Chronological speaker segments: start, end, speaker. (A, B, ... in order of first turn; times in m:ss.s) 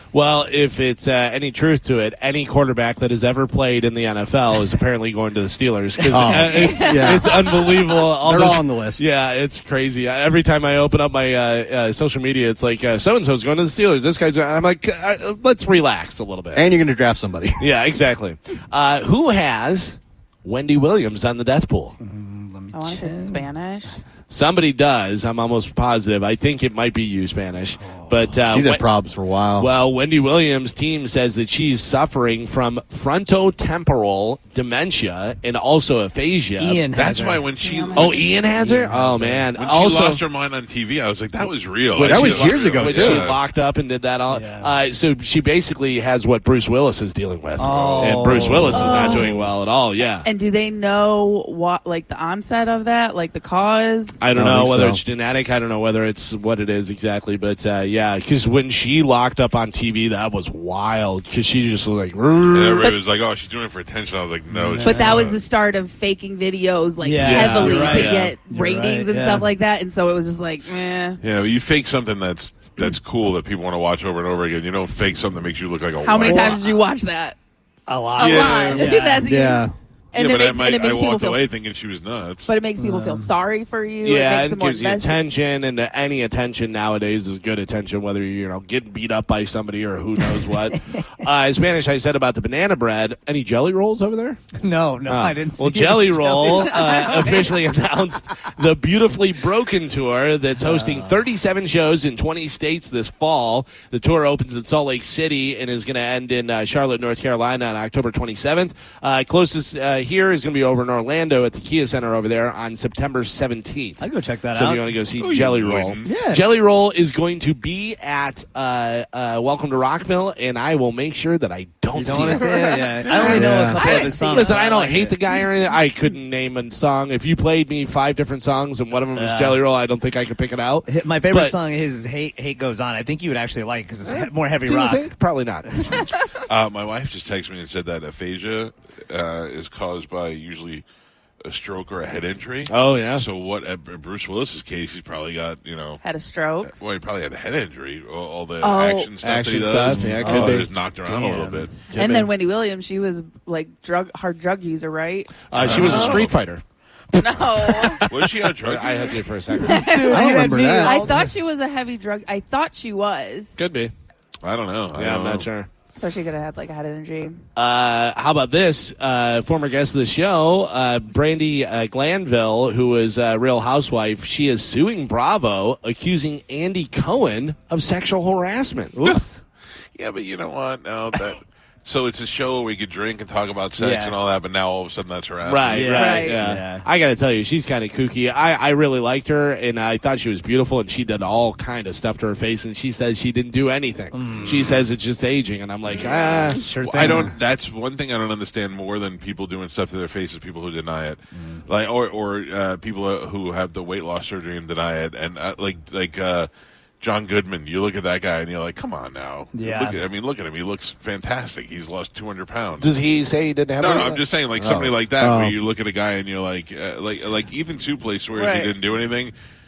0:00.1-0:16.7 A
0:06.1-0:07.2 B
0:06.2-0:08.0 C
0:08.2-0:09.1 B
0:16.6-0:17.6 B
0:17.6-0:22.0 A
0:22.0-0:23.5 D
0:22.7-0:24.0 C
0:24.3-0:28.9 A
0:27.8-0:28.3 D
0:28.5-0:29.7 B
0:29.6-0:36.8 A
0:36.6-0:37.4 D
0:36.9-0:38.3 E
0:37.6-0:38.3 C
0:38.0-0:40.2 A
0:38.6-0:39.4 D
0:39.6-0:43.4 E
0:42.0-0:50.3 A
0:42.0-0:43.2 B
0:44.3-0:44.7 D
0:47.6-0:49.3 D
0:47.6-0:48.6 E
0:48.7-0:49.4 C
0:50.2-0:54.2 C
0:54.2-1:03.0 A
0:54.4-0:55.0 B
1:02.5-1:05.4 E
1:04.5-1:05.3 D
1:04.8-1:11.2 C
1:07.0-1:09.5 D
1:07.2-1:08.3 A
1:11.2-1:16.7 E
1:16.0-1:17.4 C
1:16.2-1:16.6 D
1:17.9-1:19.2 D
1:18.2-1:18.9 E
1:18.2-1:21.4 C
1:19.2-1:19.7 B
1:20.2-1:22.5 E
1:22.5-1:25.2 C
1:22.8-1:23.3 D
1:24.0-1:34.4 A
1:30.2-1:31.0 D
1:34.6-1:37.1 D
1:35.1-2:11.6 A
1:36.4-1:37.6 C
1:40.6-1:41.2 D
1:54.0-1:54.9 D
1:55.2-1:56.2 E
1:56.0-1:56.4 D
2:02.0-2:05.2 D
2:02.3-2:04.8 C
2:03.3-2:03.8 B
2:09.2-2:09.6 D
2:10.9-2:15.1 D
2:14.1-2:16.0 A
2:16.5-2:20.8 E
2:21.4-2:26.0 E
2:22.7-2:23.2 A
2:26.0-2:26.7 C
2:26.7-2:31.8 E
2:28.6-2:29.1 C
2:29.2-2:30.7 A
2:30.2-2:31.7 D
2:31.8-2:32.3 A
2:31.9-2:36.2 C
2:35.5-2:36.6 A
2:35.6-2:36.4 E
2:35.7-2:36.2 D
2:37.2-2:38.0 C
2:37.6-2:39.9 A
2:38.1-2:39.2 E
2:39.6-2:43.6 C
2:39.6-2:41.2 D
2:40.1-2:41.0 B
2:43.6-2:43.9 A
2:44.4-2:45.5 E
2:45.0-2:45.7 A
2:46.0-2:47.4 C
2:47.6-2:59.0 A
2:59.0-2:59.4 D
3:00.0-3:06.0 E
3:03.8-3:04.2 D
3:05.4-3:17.2 A
3:05.7-3:06.8 D
3:05.9-3:06.4 C
3:14.1-3:14.7 D
3:14.4-3:14.8 E
3:16.0-3:16.5 C
3:16.6-3:17.3 D
3:16.8-3:26.5 E
3:21.4-3:21.6 D
3:27.0-3:32.9 E
3:29.5-3:30.0 D
3:32.8-3:34.2 A
3:33.8-3:39.3 E
3:34.6-3:35.6 B
3:38.3-3:38.8 C